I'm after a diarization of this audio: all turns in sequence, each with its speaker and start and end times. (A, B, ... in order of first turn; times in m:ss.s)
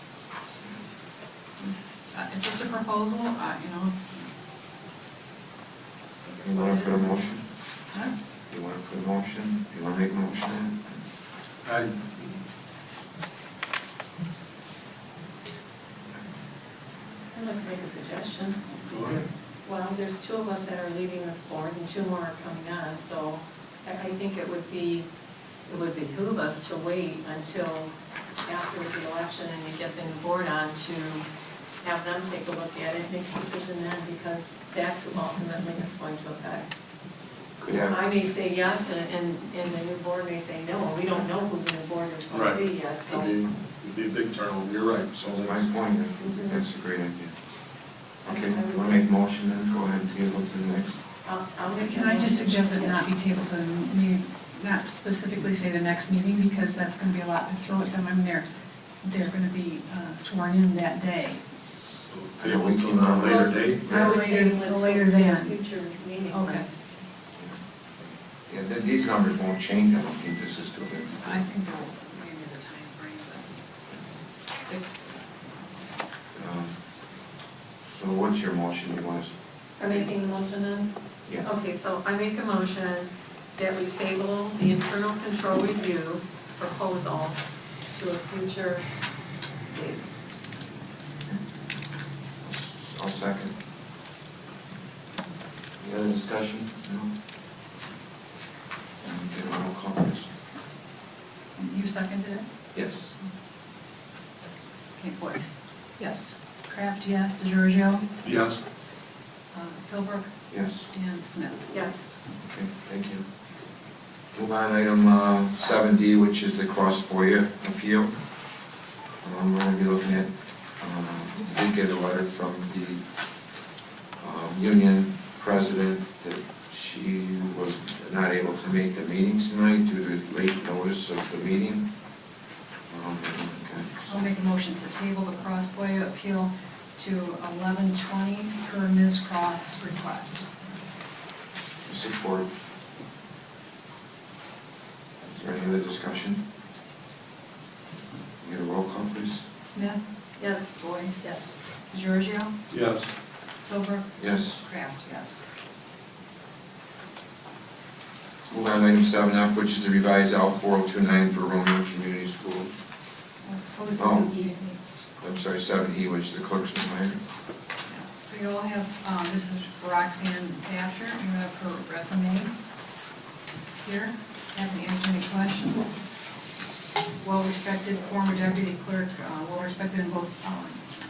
0:01.6-0:04.1 A
0:06.3-0:07.0 B
0:06.4-0:07.4 C
0:08.5-0:11.0 C
0:11.6-0:12.4 D
0:17.3-0:18.7 B
0:18.8-0:19.2 D
0:19.6-0:25.1 B
0:25.6-0:27.9 B
0:28.4-0:31.2 B
0:31.8-0:36.7 B
0:37.6-0:38.0 C
0:37.8-0:43.3 B
0:42.3-0:45.6 D
0:45.4-0:47.3 C
0:46.2-0:46.6 B
0:48.2-0:51.0 C
0:48.2-0:49.0 B
0:51.2-0:53.0 B
0:51.7-0:58.4 A
0:59.0-1:01.4 A
1:02.0-1:03.8 D
1:02.4-1:04.2 C
1:03.8-1:06.7 B
1:03.9-1:05.6 A
1:06.3-1:06.7 A
1:08.5-1:11.4 C
1:11.2-1:13.4 A
1:14.6-1:15.2 A
1:16.3-1:16.8 C
1:17.9-1:19.3 C
1:19.8-1:27.4 B
1:27.9-1:28.8 B
1:29.7-1:30.0 B
1:32.4-1:33.5 C
1:35.8-1:37.1 C
1:39.0-1:40.3 C
1:41.6-1:42.4 A
1:42.7-1:43.1 C
1:45.0-1:48.0 A
1:48.2-1:48.6 D
1:49.5-1:50.3 A
1:50.5-1:50.9 C
1:50.9-1:51.8 A
1:51.7-1:52.0 B
1:52.4-1:53.2 C
1:54.3-1:58.1 C
1:59.2-2:03.0 C
2:04.2-2:11.9 C
2:12.9-2:14.3 C
2:14.1-2:20.5 A
2:21.8-2:22.5 C
2:25.2-2:26.4 C
2:28.4-2:29.4 C
2:29.6-2:30.0 A
2:30.4-2:31.4 B
2:30.6-2:32.5 A
2:32.7-2:33.1 D
2:33.6-2:35.4 A
2:34.2-2:34.6 C
2:38.5-2:42.7 C
2:43.4-2:44.8 A
2:44.0-2:44.3 C
2:45.2-2:47.2 C
2:47.9-2:52.5 A
2:53.8-2:56.0 A
2:57.2-3:00.8 A